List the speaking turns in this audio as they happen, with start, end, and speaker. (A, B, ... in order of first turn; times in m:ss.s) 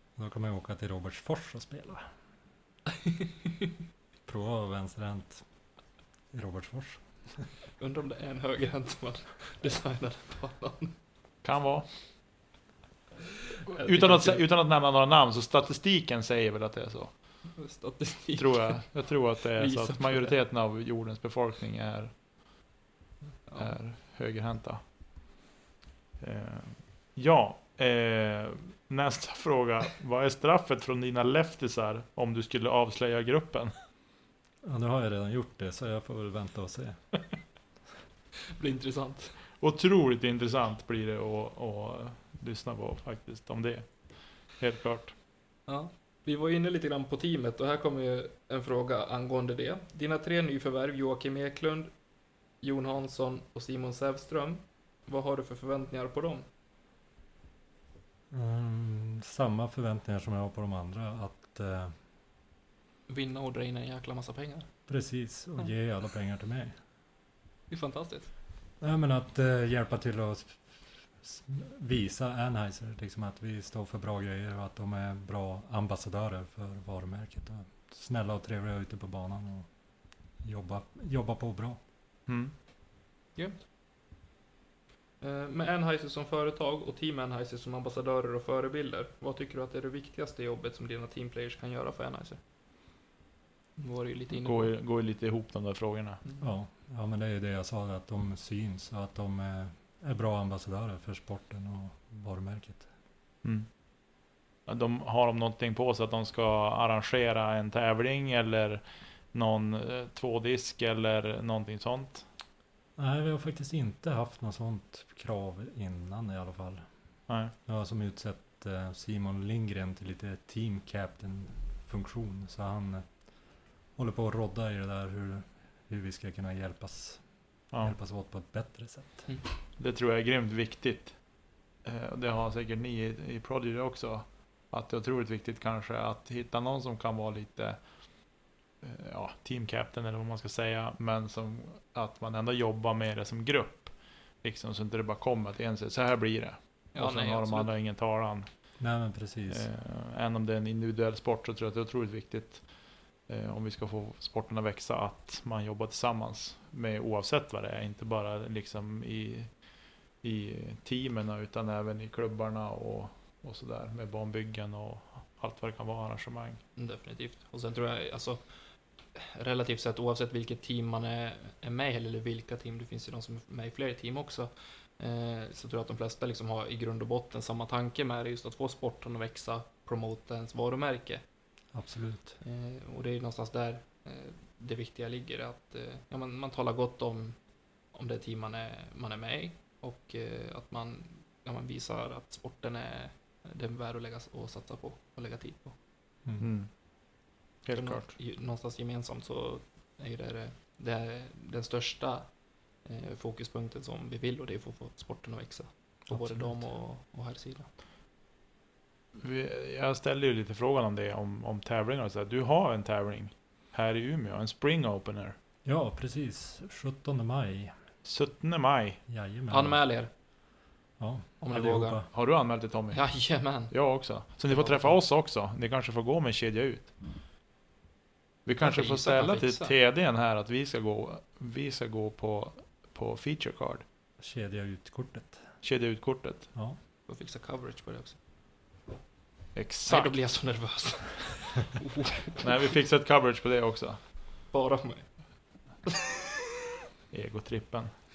0:00.2-0:02.1 A
0:04.3-0:05.4 A
0:06.3-0:07.5 A
0:07.8-0:11.0 B
0:11.4-0:11.9 C
0:13.7-0:17.1 C
0:13.7-0:14.4 B
0:17.6-0:19.0 B
0:18.4-0:22.1 C
0:19.6-0:20.4 B
0:23.4-0:23.7 B
0:23.6-0:24.8 C
0:26.2-0:33.7 C
0:34.6-0:37.0 A
0:38.6-0:39.4 B
0:39.6-0:45.2 C
0:45.7-0:51.9 B
0:52.6-0:56.5 B
0:58.3-1:02.0 A
1:03.1-1:04.7 B
1:04.9-1:06.8 A
1:07.7-1:08.3 B
1:08.8-1:19.7 A
1:20.4-1:21.8 A
1:22.3-1:22.5 C
1:25.2-1:32.4 B
1:33.8-1:34.7 B
1:34.3-1:36.2 C
1:36.4-1:42.9 A
1:44.7-1:48.8 C
1:49.3-1:52.2 C
1:53.0-1:56.8 A
1:57.3-1:57.5 C
1:57.7-2:03.1 A
2:04.0-2:07.2 A
2:07.8-2:09.3 A
2:09.8-2:11.2 C
2:11.8-2:17.8 C
2:18.8-2:28.5 C
2:27.0-2:27.7 B
2:28.8-2:29.7 A
2:29.5-2:32.7 C
2:33.3-2:39.5 C
2:40.2-2:46.6 C
2:46.8-2:48.4 B
2:49.2-3:01.2 B
3:01.7-3:02.4 A
3:02.4-3:07.4 B
3:07.9-3:15.8 B
3:16.4-3:16.7 C
3:17.6-3:18.1 C
3:17.7-3:22.3 B
3:22.8-3:27.7 B
3:26.1-3:26.6 A
3:29.2-3:35.4 C
3:35.6-3:37.8 A
3:38.0-3:39.0 C
3:39.1-3:39.8 A
3:39.5-3:40.1 B
3:41.0-3:42.1 A
3:41.4-3:42.0 B
3:42.1-3:43.1 C
3:42.9-3:43.7 B
3:43.7-3:47.0 C
3:44.5-3:45.0 B
3:48.5-3:53.8 C
3:48.6-3:49.7 B
3:54.2-3:55.5 A
3:55.6-3:56.5 C
3:57.1-3:58.2 B
3:59.6-4:00.2 C
3:59.9-4:02.5 B
4:02.4-4:04.0 C
4:04.5-4:05.1 B
4:07.1-4:07.9 C